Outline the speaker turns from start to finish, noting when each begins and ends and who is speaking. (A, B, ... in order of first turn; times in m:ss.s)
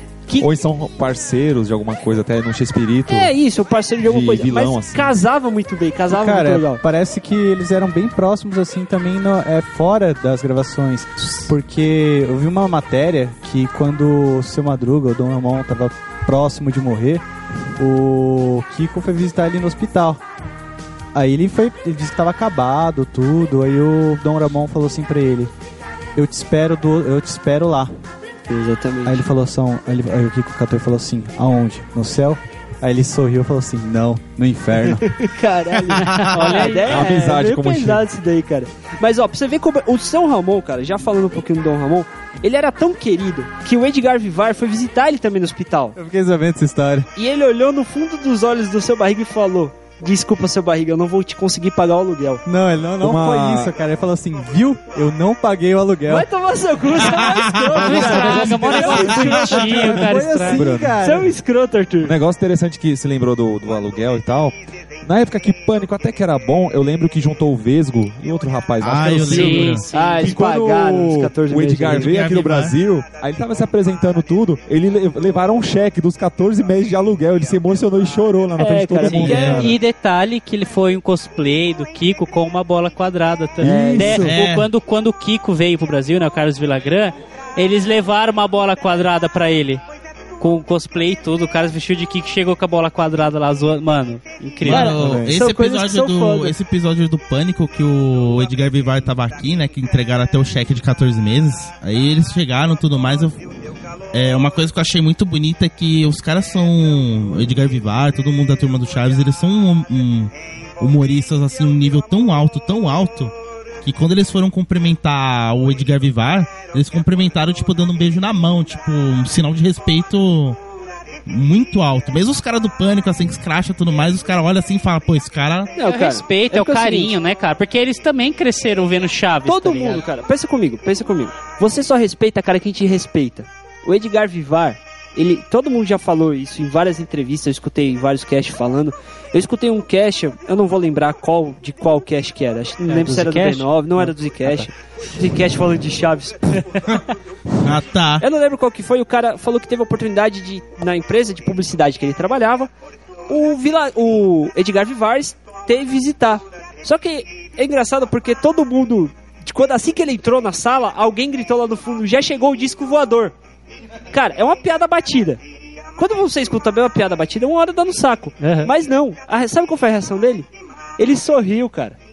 0:00.4-0:03.3 A
0:03.1-0:06.8 B
0:04.0-0:05.1 A
0:06.1-0:17.2 C
0:17.8-0:20.2 C
0:21.1-0:25.5 C
0:26.2-0:27.9 C
0:28.5-0:29.2 B
0:29.0-0:35.0 C
0:34.9-0:46.0 B
0:36.0-0:36.9 D
0:36.8-0:38.0 A
0:46.0-0:47.1 C
0:47.2-0:52.4 B
0:52.5-0:56.3 C
0:53.0-0:53.7 A
0:56.1-1:00.1 B
0:57.8-1:00.6 D
0:57.8-1:01.3 C
1:00.5-1:01.0 A
1:01.0-1:02.1 B
1:02.0-1:19.8 A
1:08.8-1:09.9 E
1:09.2-1:10.3 D
1:09.9-1:12.1 B
1:12.0-1:12.8 E
1:18.6-1:19.7 B
1:19.0-1:29.8 D
1:23.6-1:24.3 A
1:23.6-1:24.3 B
1:24.2-1:24.7 E
1:30.4-1:35.0 D
1:34.6-1:43.4 E
1:34.7-1:36.5 B
1:44.1-2:00.6 E
2:01.3-2:05.7 E
2:05.8-2:07.2 B
2:05.8-2:10.0 D
2:09.4-2:26.8 B
2:22.9-2:24.7 D
2:27.6-2:28.2 E
2:28.2-2:32.7 B
2:33.3-2:43.3 B
2:44.1-2:45.4 B
2:46.0-2:52.0 B
2:48.4-2:48.7 D